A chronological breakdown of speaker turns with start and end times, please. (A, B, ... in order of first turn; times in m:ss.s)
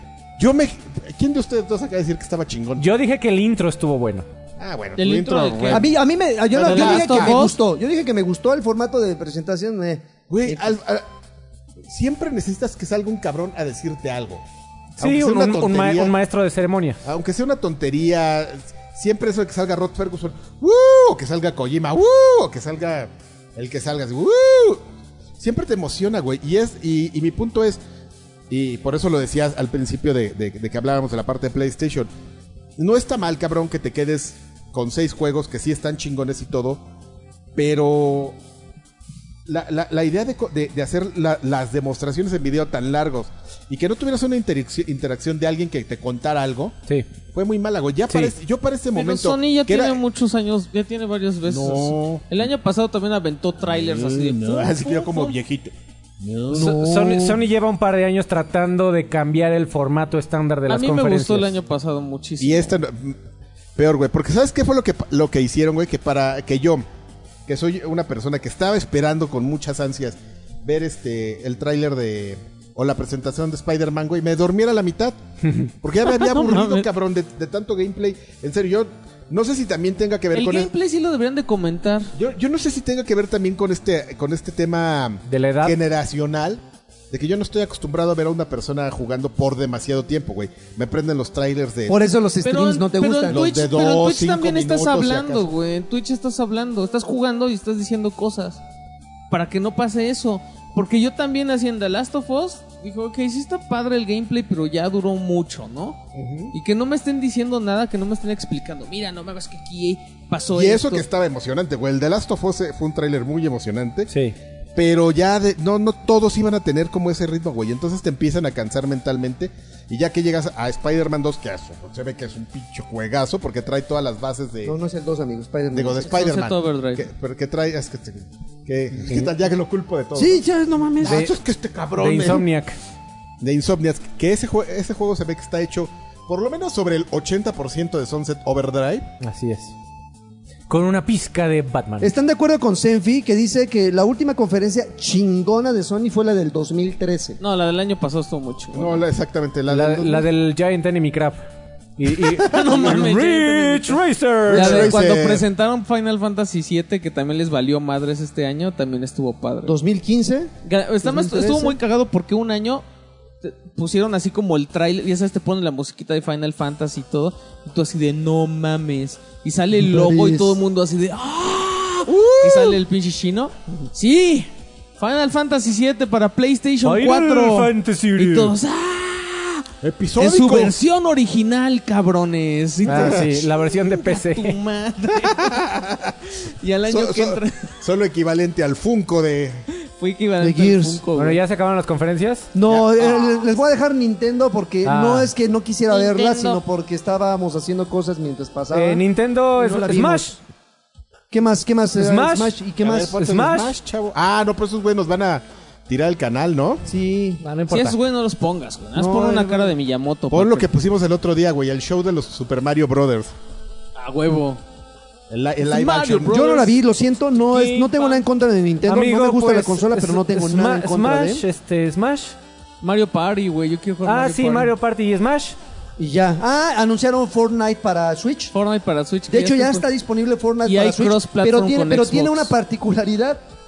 0:00.4-0:02.9 A
0:02.8-0:04.2 B
0:04.6-0:05.9 A
0:05.0-0:05.8 C
0:05.7-0:10.8 D
0:06.5-0:07.4 A
0:06.6-0:07.6 C
0:10.3-0:11.0 A
0:11.9-0:14.4 A
0:15.0-0:16.1 A
0:15.0-0:17.0 B
0:17.0-0:24.8 A
0:25.4-0:27.8 A
0:28.5-0:32.1 A
0:32.8-0:36.8 A
0:37.6-0:38.3 A
0:39.4-0:46.7 A
0:47.3-0:50.0 A
0:48.9-0:55.4 C
0:51.4-0:52.2 A
0:53.7-0:56.6 A
0:56.5-0:57.4 D
0:56.5-1:01.5 B
1:00.7-1:02.8 C
1:02.4-1:03.2 A
1:03.8-1:06.8 A
1:07.5-1:15.2 A
1:15.4-1:15.7 B
1:15.8-1:20.7 A
1:16.1-1:16.9 C
1:20.3-1:22.1 C
1:22.2-1:32.0 A
1:25.3-1:25.8 B
1:31.9-1:33.5 D
1:32.4-1:38.6 C
1:33.3-1:35.5 A
1:39.3-1:46.0 C
1:46.1-1:46.5 A
1:46.5-1:51.0 C
1:50.5-1:54.1 A
1:54.1-1:54.3 B
1:54.8-2:04.7 A
2:04.6-2:06.2 D
2:05.7-2:10.4 A
2:06.1-2:07.1 C
2:10.1-2:11.3 D
2:11.0-2:12.4 A
2:11.0-2:11.3 B
2:12.0-2:12.8 B
2:13.4-2:19.1 A
2:19.2-2:19.7 B
2:20.7-2:22.1 B
2:22.0-2:27.4 D
2:27.4-2:29.0 C
2:28.7-2:30.3 A
2:29.7-2:31.4 B
2:32.0-2:35.0 B
2:32.4-2:34.0 C
2:34.5-2:35.4 A
2:34.5-2:39.8 C
2:39.6-2:40.5 D
2:40.6-2:42.8 C
2:41.0-2:41.8 D
2:43.4-2:59.7 C
2:49.7-2:50.6 D
2:52.1-2:52.8 A
2:56.8-2:58.5 B
2:59.8-3:00.8 A
3:00.2-3:05.6 C
3:02.9-3:04.6 B
3:02.9-3:03.3 A
3:05.2-3:06.2 A
3:06.6-3:07.8 C
3:06.9-3:09.6 A
3:09.7-3:11.4 C
3:10.4-3:11.0 D
3:11.2-3:12.5 B
3:12.5-3:19.0 D
3:12.7-3:13.4 A
3:14.8-3:15.3 B
3:15.9-3:16.6 C
3:18.7-3:20.4 B
3:19.5-3:20.3 D
3:21.3-3:23.4 D
3:22.0-3:22.6 B
3:22.8-3:26.8 A
3:23.2-3:23.7 B
3:26.8-3:27.4 D
3:27.4-3:28.0 B
3:27.7-3:30.7 C
3:28.9-3:29.7 D
3:30.3-3:33.3 A
3:34.0-3:34.6 C
3:35.3-3:36.5 A
3:35.6-3:36.7 C
3:36.3-3:41.4 D
3:37.4-3:38.2 C
3:38.8-3:42.4 B
3:42.8-3:44.7 C
3:44.0-3:45.6 B
3:46.0-3:48.5 D
3:48.5-3:49.8 C
3:49.3-3:53.4 D
3:50.6-3:52.5 C